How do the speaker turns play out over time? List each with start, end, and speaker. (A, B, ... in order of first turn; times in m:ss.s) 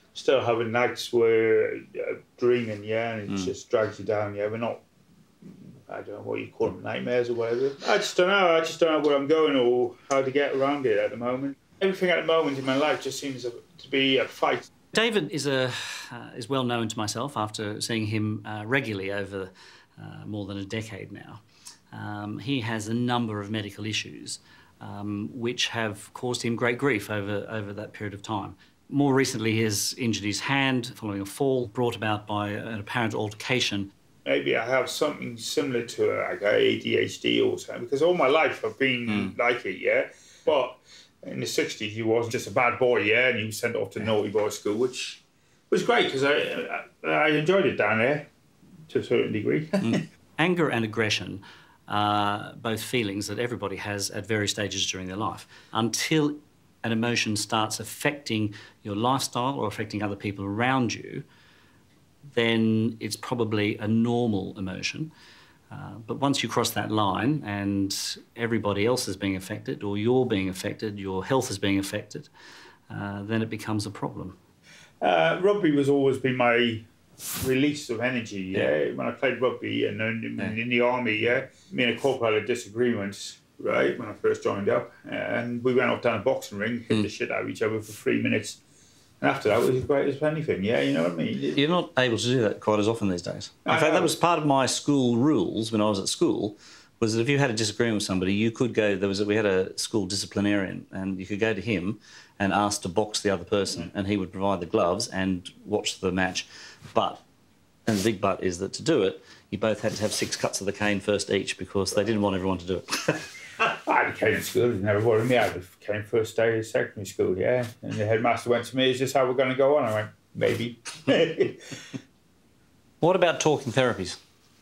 0:00.1-0:04.8 A
0:03.3-0:03.5 B
0:05.9-0:14.7 A
0:14.9-0:33.9 B
0:34.2-0:48.3 A
0:39.1-0:39.3 B
0:48.9-0:50.0 A
0:49.8-1:01.2 B
1:02.3-1:05.1 B
1:05.7-1:12.3 B
1:12.9-1:14.4 B
1:15.0-1:16.9 A
1:17.4-1:28.6 A
1:29.2-1:31.6 A
1:31.5-1:47.2 B
1:33.6-1:34.1 A
1:47.9-1:52.9 B
1:53.9-2:01.6 A
2:03.0-2:04.2 B